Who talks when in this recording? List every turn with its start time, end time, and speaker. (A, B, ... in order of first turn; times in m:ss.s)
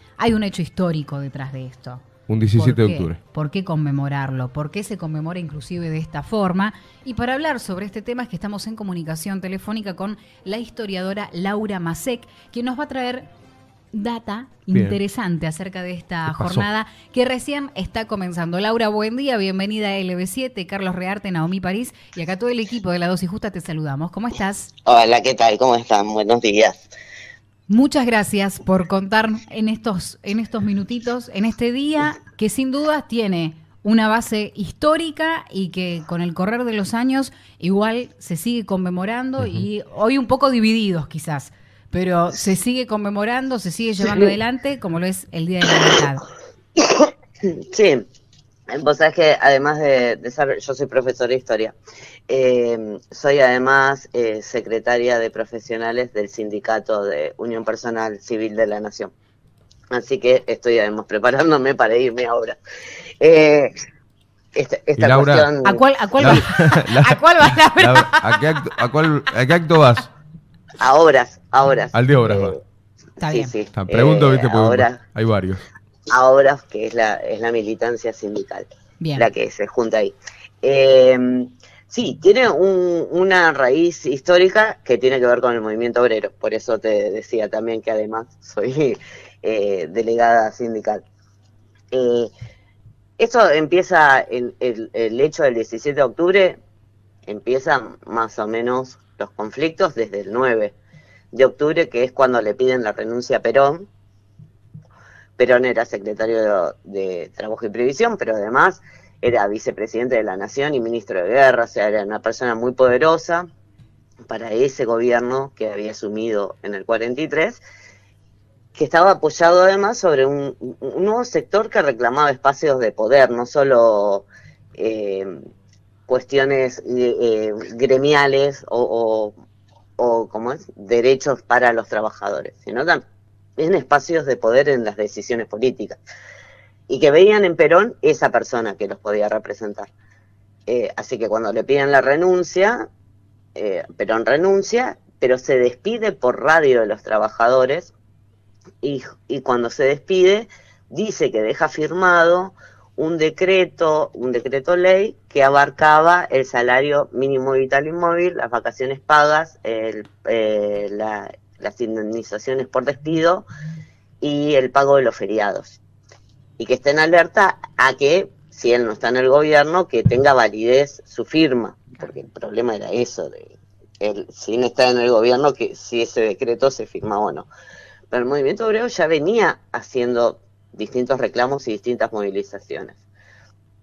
0:00.2-0:13.3 A
0:02.3-0:03.2 B
0:13.9-0:24.7 A
0:14.7-0:15.0 B
0:16.3-0:16.7 B
0:24.9-0:26.9 C
0:27.7-0:46.3 A
0:39.4-0:39.7 B
0:46.8-0:48.0 C
0:48.7-0:51.8 C
0:52.3-0:59.1 C
0:59.9-1:02.6 C
1:03.2-1:03.7 C
1:04.6-1:05.8 C
1:05.0-1:05.5 B
1:05.6-1:08.4 A
1:06.2-1:10.1 B
1:10.8-1:12.6 C
1:11.9-1:12.6 B
1:13.2-1:15.0 C
1:13.2-1:13.5 A
1:13.7-1:15.6 B
1:16.1-1:31.0 C
1:19.0-1:19.3 A
1:31.9-1:32.3 C
1:33.2-1:36.6 C
1:37.3-1:40.8 C
1:41.3-1:43.9 C
1:45.4-1:53.5 C
1:54.3-1:57.6 C
1:58.8-2:04.3 C
2:04.8-2:05.4 C
2:06.1-2:09.3 C
2:10.0-2:13.0 C
2:13.6-2:16.0 C
2:16.9-2:19.9 C
2:20.7-2:22.8 C
2:23.6-2:27.9 C
2:28.8-2:43.4 C
2:44.2-2:45.8 C
2:46.6-2:57.5 C
2:58.1-3:03.0 C